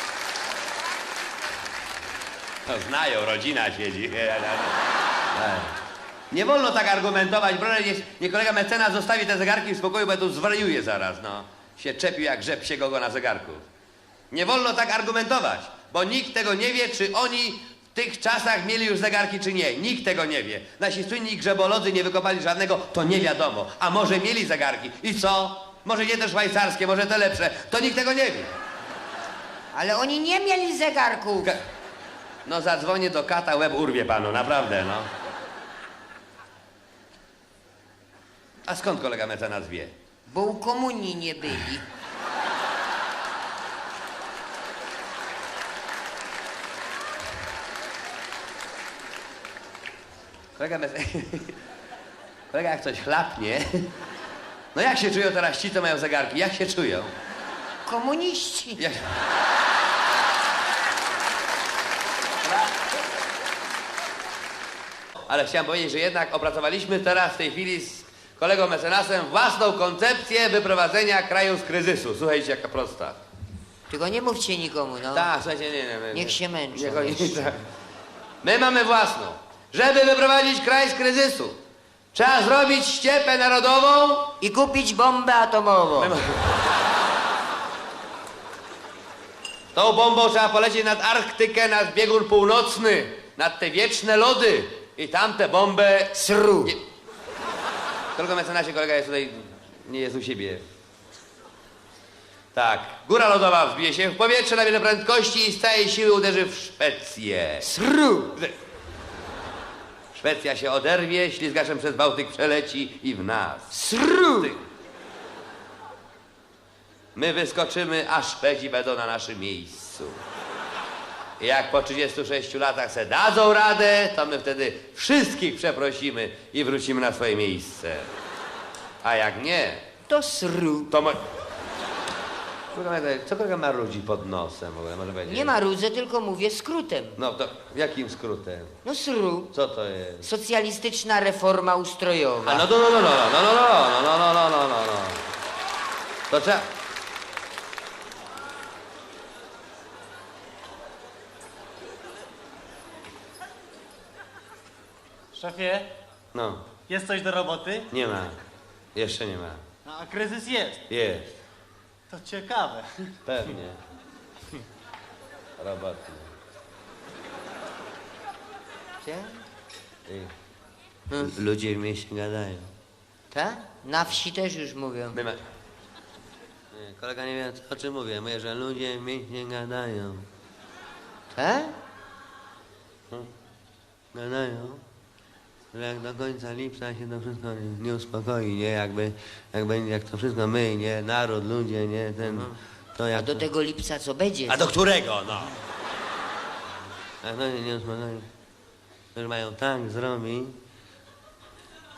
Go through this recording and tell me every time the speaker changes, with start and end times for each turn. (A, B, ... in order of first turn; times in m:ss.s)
0:02.6-0:04.8 A
0:05.3-0:05.8 A
0:06.3-0:13.6 A
0:14.3-0:28.5 A
0:29.7-0:31.5 B
0:32.5-0:35.1 A
0:38.7-0:39.9 A
0:40.3-0:41.8 B
0:50.6-0:51.6 A
0:52.5-0:53.9 A
0:54.7-0:57.1 A
0:57.8-0:58.8 B
0:58.8-0:59.2 A
1:05.3-1:13.2 A
1:13.9-1:15.3 B
1:15.1-1:17.6 A
1:16.1-1:17.5 B
1:18.4-1:21.6 A
1:22.1-1:24.4 A
1:24.4-1:26.2 B
1:26.0-1:26.6 A
1:29.7-1:36.8 A
1:36.1-1:36.8 B
1:38.2-1:40.6 A
1:42.5-1:47.7 A
1:47.6-1:48.4 B
1:50.1-1:53.7 A
1:53.7-1:54.5 B
1:57.2-2:00.2 A
2:01.4-2:08.1 A
2:09.0-2:09.8 A
2:10.1-2:11.0 B
2:10.9-2:11.2 A
2:12.7-2:15.5 A
2:15.3-2:17.2 B
2:17.2-2:18.8 A
2:18.8-2:19.5 B
2:19.5-2:20.3 A
2:20.2-2:22.7 B
2:22.4-2:25.2 A
2:26.3-2:26.7 A
2:35.3-2:35.9 C
2:36.3-2:36.7 A
2:36.8-2:37.9 C
2:37.9-2:38.4 A
2:39.0-2:39.6 A
2:39.8-2:40.9 C
2:40.9-2:41.3 A
2:42.1-2:43.2 C
2:43.3-2:43.8 A
2:45.6-2:46.3 A
2:49.0-2:49.4 B
2:50.1-2:50.3 A
2:51.1-2:52.7 A
2:53.3-2:55.2 B
2:55.1-2:55.4 A
2:56.7-3:00.3 A
3:01.3-3:01.8 B
3:04.1-3:04.8 A
3:05.7-3:13.4 A
3:12.2-3:12.5 B
3:13.1-3:14.6 B
3:14.5-3:15.6 A
3:17.2-3:18.3 A
3:19.1-3:20.6 A